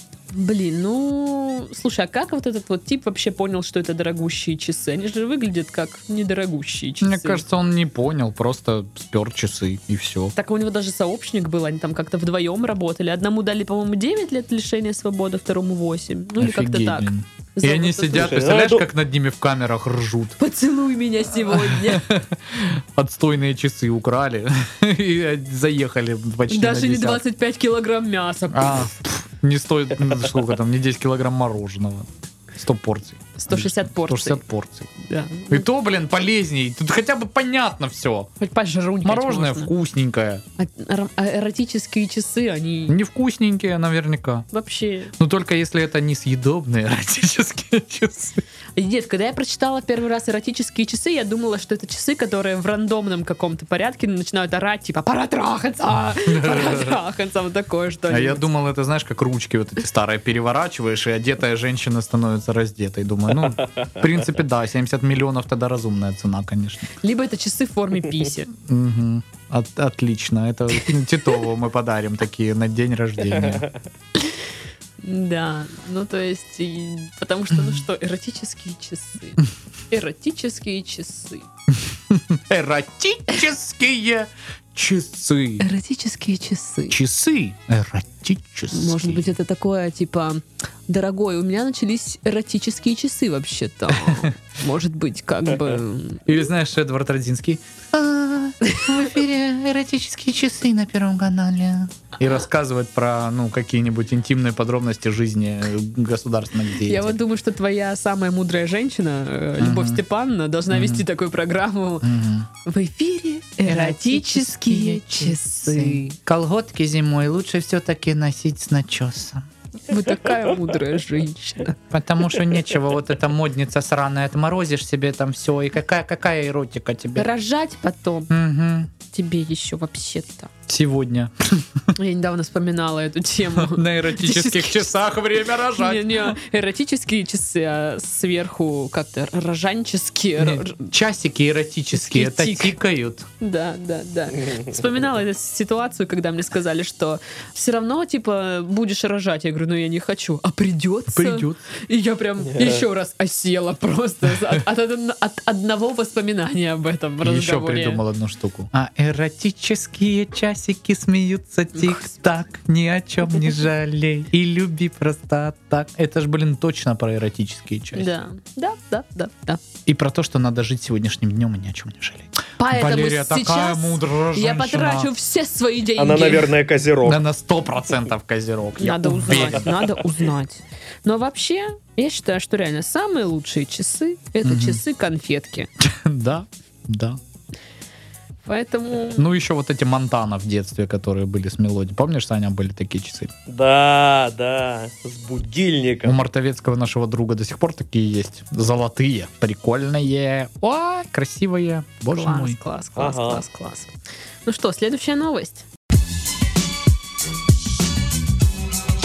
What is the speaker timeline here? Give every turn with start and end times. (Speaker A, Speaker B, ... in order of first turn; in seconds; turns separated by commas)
Speaker A: 0.3-7.4, Speaker B: 7.0-10.3, Speaker A: 10.3-18.4, Speaker B: 16.4-20.4, Speaker C: 18.1-18.9, Speaker A: 20.4-22.1, Speaker B: 21.4-27.2, Speaker A: 26.5-28.9, Speaker B: 28.5-34.9, Speaker A: 33.4-34.4, Speaker A: 35.0-35.6, Speaker B: 35.5-38.3, Speaker A: 38.4-39.7, Speaker B: 39.0-40.4, Speaker A: 40.6-43.0, Speaker B: 42.9-44.5, Speaker A: 44.5-45.1, Speaker B: 45.2-48.4, Speaker A: 48.8-58.5, Speaker B: 56.2-57.0, Speaker B: 58.1-66.9, Speaker A: 67.0-68.5, Speaker B: 68.6-73.6, Speaker C: 73.4-73.7, Speaker A: 75.0-81.5, Speaker B: 81.9-85.7, Speaker A: 85.6-87.0, Speaker B: 86.9-89.3, Speaker A: 88.7-96.3, Speaker B: 93.9-94.3, Speaker B: 96.3-107.2, Speaker A: 98.6-98.9, Speaker A: 106.8-112.1, Speaker B: 109.6-110.0, Speaker B: 110.7-111.0, Speaker B: 112.0-112.5, Speaker A: 112.6-116.2, Speaker B: 113.6-119.5, Speaker A: 119.9-121.8, Speaker B: 121.9-127.3, Speaker A: 127.1-128.3, Speaker B: 128.3-128.9, Speaker A: 129.1-130.5, Speaker B: 130.7-131.9, Speaker A: 131.9-134.9, Speaker B: 133.6-136.3, Speaker A: 135.7-140.9, Speaker B: 140.4-143.3, Speaker A: 141.9-142.8, Speaker A: 143.4-158.0, Speaker B: 151.1-151.6, Speaker C: 152.5-152.8, Speaker B: 157.2-168.1, Speaker A: 161.8-162.1, Speaker A: 167.9-169.6, Speaker B: 169.8-175.1, Speaker A: 172.6-176.5, Speaker C: 176.0-177.2, Speaker B: 177.0-179.7, Speaker A: 178.8-185.7, Speaker B: 184.4-184.8, Speaker B: 185.8-187.2, Speaker A: 188.4-189.2, Speaker B: 189.2-193.3, Speaker C: 193.5-196.2, Speaker B: 196.0-202.6, Speaker A: 202.1-203.9, Speaker C: 203.0-203.4, Speaker A: 204.4-205.7